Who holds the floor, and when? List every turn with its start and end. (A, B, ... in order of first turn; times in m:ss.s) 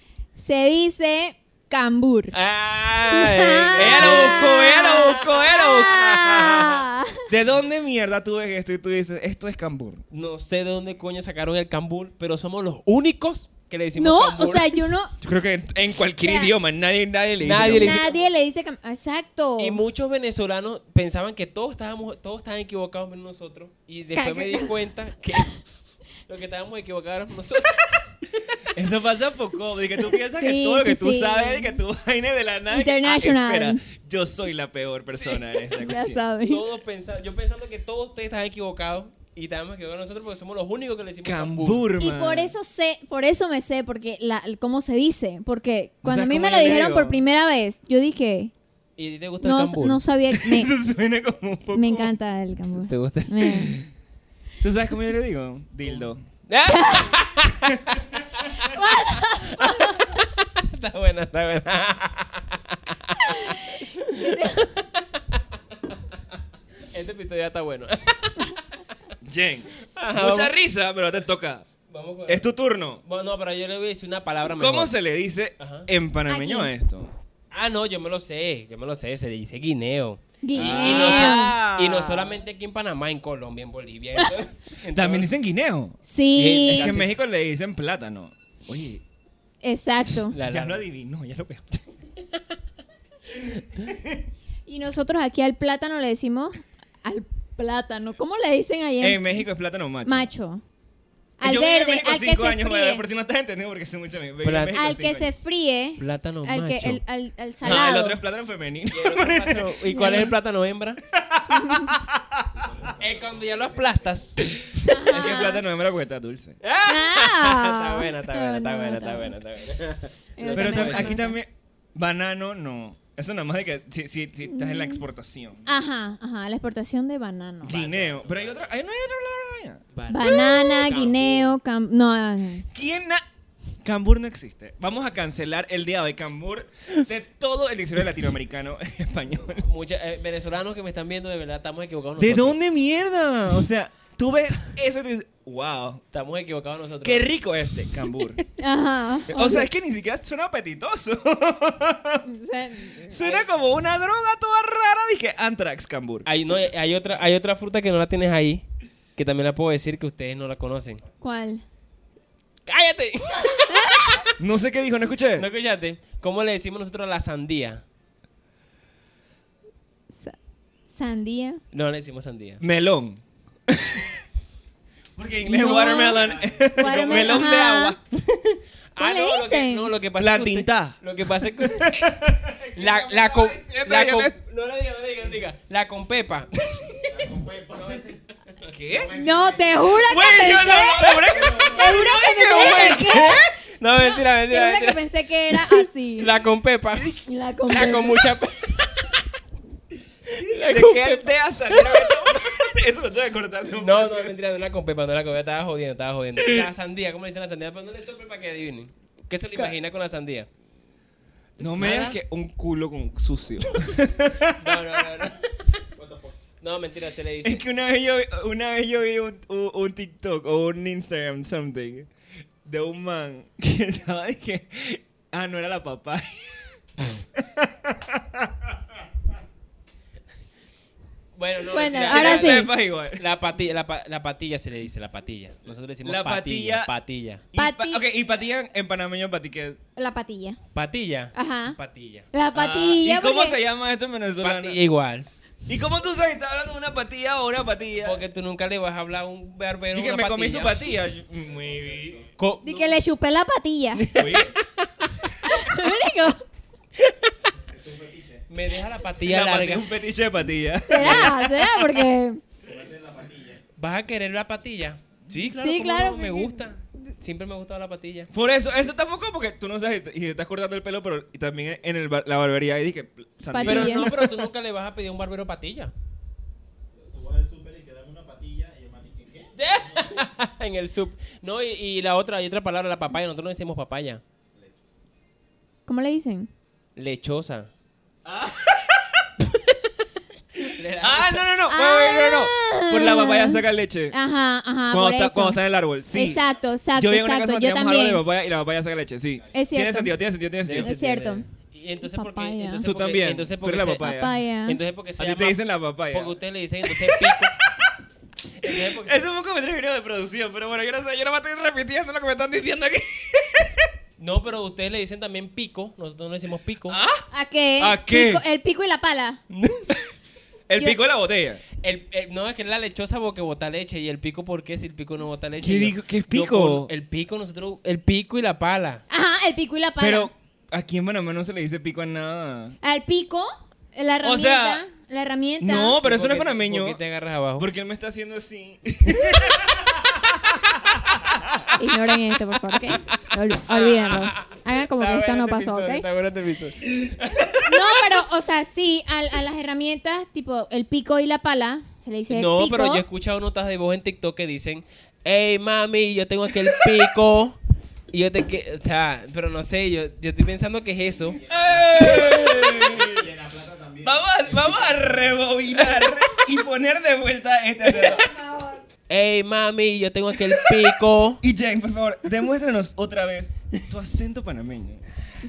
0:00.4-0:02.4 A
0:02.3-0:05.6 B
0:03.1-0:07.3 A
0:03.7-0:06.3 C
0:06.1-0:06.8 B
0:07.3-0:10.0 C
0:10.1-0:14.8 B
0:14.0-0:15.1 A
0:15.2-0:18.0 C
0:16.2-0:16.5 A
0:17.4-0:18.2 B
0:17.8-0:19.8 A
0:19.6-0:25.7 B
0:24.1-0:24.7 A
0:26.2-0:28.0 B
0:28.7-0:36.2 C
0:30.3-0:31.8 A
0:32.7-0:33.8 A
0:35.7-0:36.6 A
0:36.5-0:41.9 B
0:41.2-0:42.5 C
0:42.0-0:48.5 A
0:46.0-0:47.2 C
0:49.0-0:50.0 B
0:49.4-0:50.7 A
0:50.3-0:52.1 C
0:51.7-0:53.8 A
0:52.9-0:53.7 B
0:54.6-0:56.2 C
0:56.5-1:06.0 B
0:56.7-0:57.2 A
0:58.5-1:00.2 A
1:03.2-1:04.7 A
1:06.8-1:08.6 B
1:09.2-1:11.7 C
1:09.9-1:10.5 B
1:11.9-1:12.5 B
1:12.3-1:13.0 C
1:13.0-1:14.9 B
1:14.5-1:17.1 C
1:15.6-1:15.9 B
1:16.3-1:16.7 A
1:17.5-1:25.3 B
1:20.4-1:21.5 A
1:20.5-1:22.4 C
1:24.9-1:26.0 C
1:26.0-1:26.9 A
1:26.3-1:27.2 B
1:26.6-1:29.0 C
1:29.6-1:30.4 A
1:30.3-1:30.8 B
1:30.4-1:31.8 C
1:33.8-1:34.2 C
1:34.6-1:39.4 A
1:39.0-1:40.3 C
1:40.0-1:40.6 A
1:41.4-1:43.0 A
1:41.4-1:45.3 C
1:44.4-1:44.8 B
1:44.7-1:48.2 A
1:46.0-1:47.0 B
1:47.6-1:50.3 C
1:47.6-1:47.9 B
1:48.9-1:51.0 B
1:49.9-1:50.2 A
1:51.1-1:52.4 C
1:51.5-1:52.0 A
1:52.5-1:54.2 D
1:53.0-1:54.5 B
1:54.4-1:56.6 C
1:54.9-1:55.6 A
1:56.6-2:01.2 B
1:56.9-1:59.3 A
2:00.4-2:01.4 A
2:00.5-2:05.6 C
2:04.5-2:05.0 A
2:05.6-2:07.8 A
2:07.6-2:10.3 C
2:07.7-2:08.6 B
2:09.9-2:11.5 B
2:10.1-2:12.6 A
2:12.7-2:13.2 C
2:13.8-2:19.6 C
2:19.6-2:22.6 B
2:22.2-2:26.0 C
2:26.1-2:27.3 B
2:27.0-2:28.4 C
2:28.6-2:29.7 A
2:29.3-2:32.2 C
2:32.2-2:33.1 A
2:33.1-2:36.3 C
2:33.2-2:33.4 B
2:36.2-2:38.6 B
2:39.2-2:41.0 B
2:41.2-2:41.6 A
2:42.6-2:44.3 B
2:43.7-2:44.1 A
2:44.4-2:45.5 C
2:45.3-2:47.8 B
2:50.1-2:50.4 A
2:50.9-2:51.6 A
2:51.7-2:52.6 B
2:52.6-2:54.2 C
2:55.2-2:58.0 C
2:55.4-2:58.0 A
2:55.6-2:56.7 D
2:56.8-2:57.5 B
2:58.1-3:02.0 B
2:59.0-2:59.9 A
3:00.2-3:02.5 C
3:02.7-3:07.0 B
3:02.7-3:03.4 D
3:03.3-3:04.3 C
3:07.0-3:08.2 D
3:08.7-3:09.2 C
3:08.9-3:09.8 D
3:09.1-3:16.3 A
3:09.8-3:13.2 C
3:11.0-3:19.2 B
3:11.4-3:11.7 D
3:17.2-3:18.2 A
3:20.3-3:22.3 B
3:20.4-3:24.4 C
3:23.8-3:30.5 B
3:26.4-3:26.7 C
3:31.6-3:32.2 B
3:31.6-3:35.0 C
3:34.5-3:35.8 B
3:36.0-3:36.4 D
3:36.6-3:37.6 B
3:37.4-3:42.1 C
3:42.6-3:46.8 C
3:47.3-3:48.7 C
3:51.4-3:57.4 B
3:51.7-3:52.7 A
3:52.0-3:53.2 C
3:56.0-3:56.9 C
3:57.5-3:59.8 C
3:57.5-3:58.0 A
4:00.0-4:00.6 A
4:00.7-4:02.3 B
4:01.3-4:01.8 A
4:02.3-4:03.6 A
4:02.5-4:04.8 C
4:04.4-4:05.3 B
4:05.7-4:08.2 C
4:08.0-4:10.9 B
4:09.9-4:12.2 C
4:11.4-4:12.3 D
4:12.4-4:12.9 B
4:12.6-4:14.1 A
4:14.0-4:15.3 B
4:14.1-4:14.6 C
4:15.4-4:16.4 A
4:17.0-4:17.3 B
4:17.6-4:18.5 D
4:18.5-4:19.9 B
4:19.2-4:22.0 C
4:20.8-4:22.4 A
4:21.0-4:21.3 B
4:22.6-4:23.6 D
4:23.8-4:28.3 B
4:25.6-4:26.6 A
4:28.3-4:34.5 C
4:33.5-4:34.1 A
4:33.6-4:35.9 B
4:37.0-4:40.2 D
4:39.6-4:44.2 B
4:44.5-4:44.8 D
4:45.9-4:46.5 A
4:47.0-4:47.7 B
4:48.2-4:49.3 C
4:50.6-4:51.5 B
4:51.0-4:54.2 C
4:51.7-4:55.6 A
4:54.9-4:56.4 C
4:56.1-4:58.2 A
4:56.2-4:56.6 D
4:56.9-5:00.9 C
4:59.3-4:59.8 D
4:59.5-5:00.2 A
5:00.6-5:07.5 B
5:00.8-5:01.4 A
5:02.0-5:02.8 A
5:02.8-5:04.4 C
5:04.0-5:04.8 A
5:05.2-5:07.9 C
5:08.6-5:09.2 B
5:08.6-5:13.9 C
5:14.2-5:17.0 B
5:16.9-5:17.3 C
5:17.3-5:19.4 A
5:17.8-5:18.4 C
5:19.5-5:19.9 B
5:20.7-5:21.6 C
5:21.8-5:29.0 B
5:25.6-5:26.9 C
5:29.1-5:30.3 A
5:30.0-5:32.8 C
5:32.8-5:36.0 A
5:34.2-5:34.8 C
5:35.6-5:37.0 C
5:36.0-5:37.7 B
5:37.6-5:41.7 C
5:41.8-5:46.0 A
5:43.0-5:47.6 B
5:47.6-5:53.0 A
5:52.3-5:57.6 B
5:58.1-6:01.4 B
6:01.2-6:05.3 D
6:01.4-6:03.3 C
6:04.0-6:08.3 C
6:05.8-6:06.4 B
6:07.8-6:08.2 B
6:08.2-6:08.8 A
6:09.1-6:11.4 B
6:10.4-6:10.9 C
6:11.4-6:15.0 C